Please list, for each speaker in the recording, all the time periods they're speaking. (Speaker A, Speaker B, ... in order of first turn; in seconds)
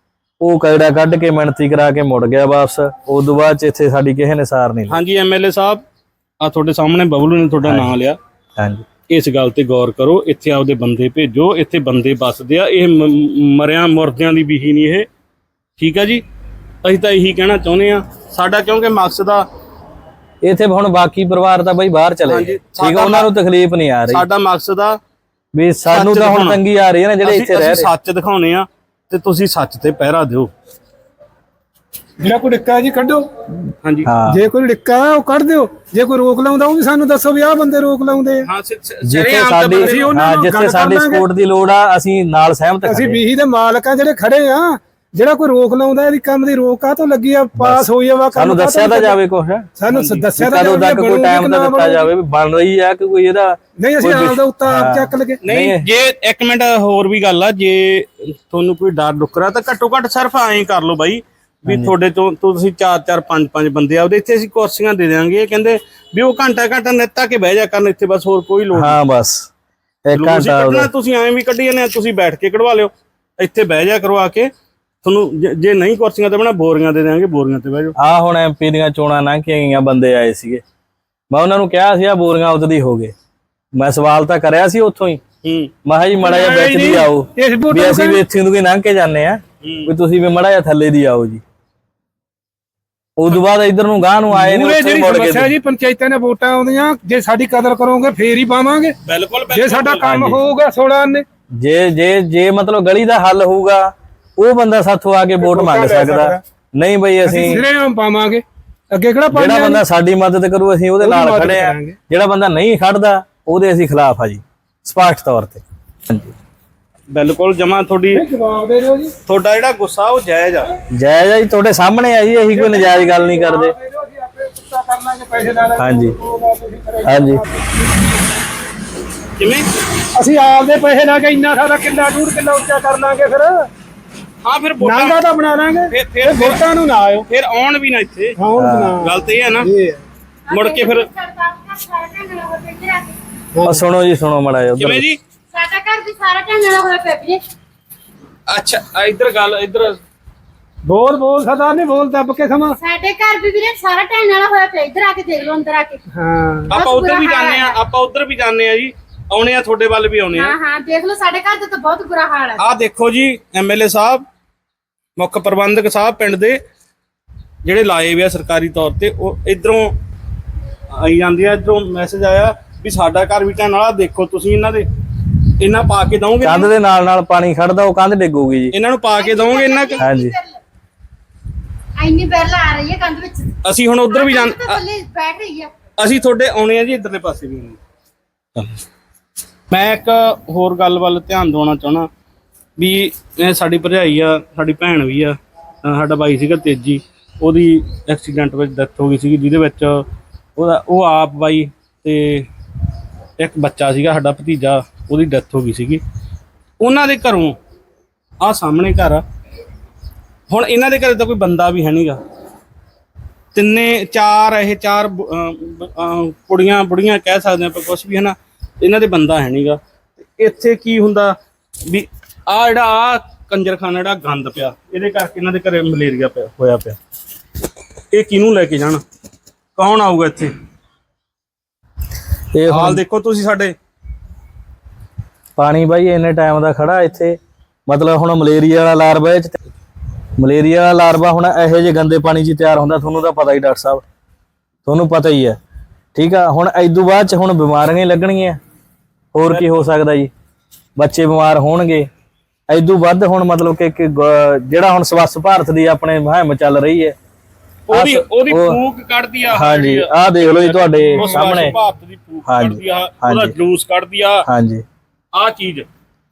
Speaker A: 0.4-5.0, 7.6-7.9, 8.6-8.8, 20.4-24.2, 25.5-27.9, 34.0-34.4, 39.0-43.2, 47.6-49.7, 50.4-55.8, 61.7-61.9, 68.7-69.5, 70.0-70.9, 78.0-80.6, 81.3-83.1, 83.7-85.2, 85.8-91.4, 93.2-95.5, 100.1-100.4, 101.6-107.6, 109.3-116.3, 120.9-123.7, 125.8-126.2, 127.0-127.4, 138.6-139.0, 143.6-145.0, 176.4-178.7, 180.0-180.3, 232.5-233.0, 235.6-239.5, 240.4-244.0, 244.8-245.6, 246.1-248.6, 249.3-250.3, 251.0-252.1, 252.7-257.1, 257.9-258.8, 259.5-261.7, 262.5-263.5, 264.4-264.8
Speaker B: 4.9-5.8, 6.4-8.2, 9.1-15.1, 15.8-16.2, 16.8-19.4, 22.3-23.3, 24.1-25.0, 25.9-26.6, 27.2-30.5, 33.8-34.1, 38.4-40.2, 49.9-50.3, 55.4-69.0, 70.1-74.5, 75.0-77.9, 85.4-85.7, 89.6-89.9, 99.0-100.1, 117.1-118.2, 119.2-120.7, 129.4-129.7, 134.4-135.2, 135.9-136.7, 137.3-138.4, 139.0-139.7, 140.5-141.1, 144.8-145.2, 148.5-150.0, 156.7-160.5, 162.6-164.2, 165.2-166.6, 167.6-169.9, 170.9-174.8, 175.6-176.7, 178.7-180.0, 183.6-184.8, 186.0-187.8, 189.7-192.1, 192.8-200.0, 200.6-202.5, 203.4-206.0, 206.8-207.6, 208.4-209.2, 210.5-212.2, 213.5-219.8, 220.4-227.0, 228.1-229.0, 229.8-230.5, 232.7-233.7, 257.9-264.5, 265.3-265.9
Speaker C: 32.2-33.3, 34.3-38.5, 39.8-41.2, 42.8-49.2, 49.8-52.1, 53.8-55.4, 86.2-88.2, 94.3-98.9, 99.5-101.2, 105.4-106.4, 107.2-109.8, 111.0-112.0, 118.1-119.1, 122.5-128.0, 130.1-133.7, 134.8-137.3, 138.4-140.0, 143.5-143.8, 150.8-152.8, 156.1-156.7, 261.2-261.5
Speaker D: 140.5-143.2, 145.5-147.4, 152.8-156.0, 156.7-157.8, 160.3-162.6, 179.2-180.6, 182.0-185.7